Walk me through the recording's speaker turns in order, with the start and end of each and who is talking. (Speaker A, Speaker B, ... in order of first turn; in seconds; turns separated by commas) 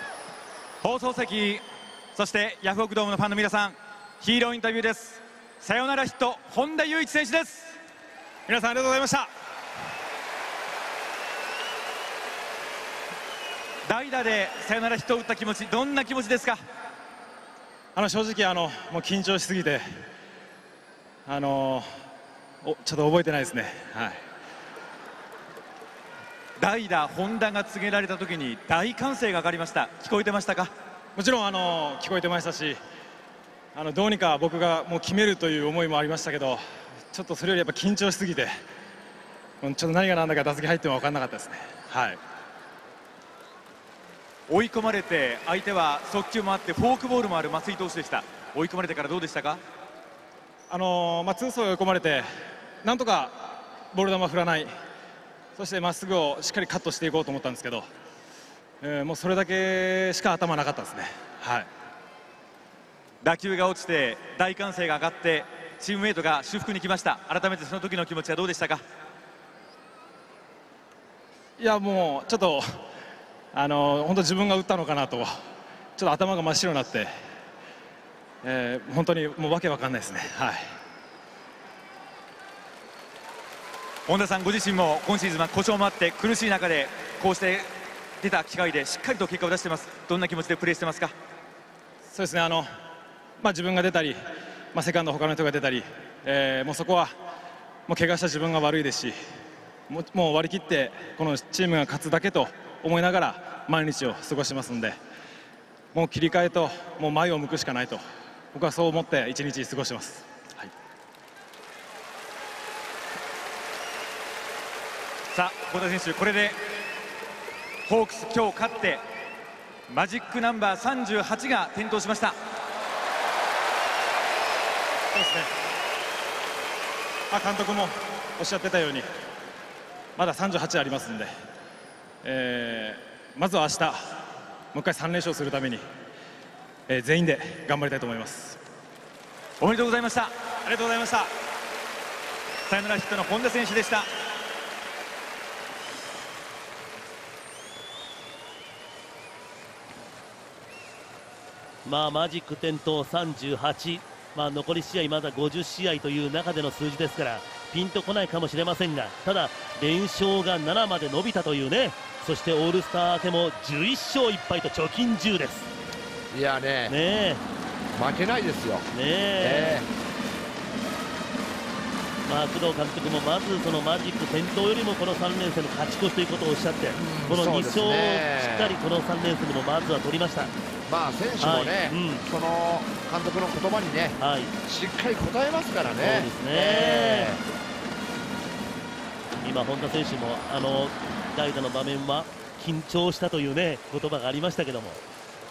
Speaker A: 0.8-1.6, Speaker A: 2.1-7.8, Speaker B: 8.5-9.3, Speaker A: 13.8-16.6, Speaker B: 17.9-19.8, Speaker B: 21.2-21.9, Speaker B: 22.6-24.2, Speaker A: 26.6-30.7, Speaker B: 31.1-32.8, Speaker B: 33.7-36.6, Speaker B: 37.1-38.5, Speaker B: 39.6-42.2, Speaker A: 44.5-49.6, Speaker B: 50.7-52.2, Speaker B: 52.8-54.7, Speaker B: 55.6-57.8, Speaker B: 58.8-61.7, Speaker A: 63.2-68.8, Speaker B: 71.6-72.6, Speaker B: 73.5-75.3, Speaker B: 76.0-77.1, Speaker B: 78.4-80.6, Speaker A: 84.1-87.7, Speaker A: 88.2-91.1, Speaker B: 92.1-92.7, Speaker B: 93.4-94.2, Speaker B: 94.7-97.1, Speaker B: 97.9-99.1, Speaker B: 99.9-105.0, Speaker B: 105.9-108.0, Speaker B: 108.5-110.7, Speaker A: 115.3-116.6, Speaker A: 117.9-119.0, Speaker A: 119.9-122.3, Speaker B: 125.1-125.5, Speaker B: 127.3-129.1, Speaker B: 130.2-131.3, Speaker B: 132.2-134.0, Speaker B: 134.7-135.8, Speaker B: 136.9-138.6, Speaker A: 139.6-140.3, Speaker B: 140.7-141.2, Speaker A: 142.7-144.1, Speaker C: 151.8-165.7, Speaker D: 166.3-166.9, Speaker C: 166.8-167.4, Speaker D: 167.9-168.9, Speaker C: 168.9-169.8, Speaker D: 169.4-169.9, Speaker C: 172.2-180.5, Speaker D: 176.9-178.8, Speaker D: 180.9-187.4, Speaker C: 181.4-182.2, Speaker C: 184.2-184.5, Speaker C: 186.0-187.3, Speaker C: 189.4-195.0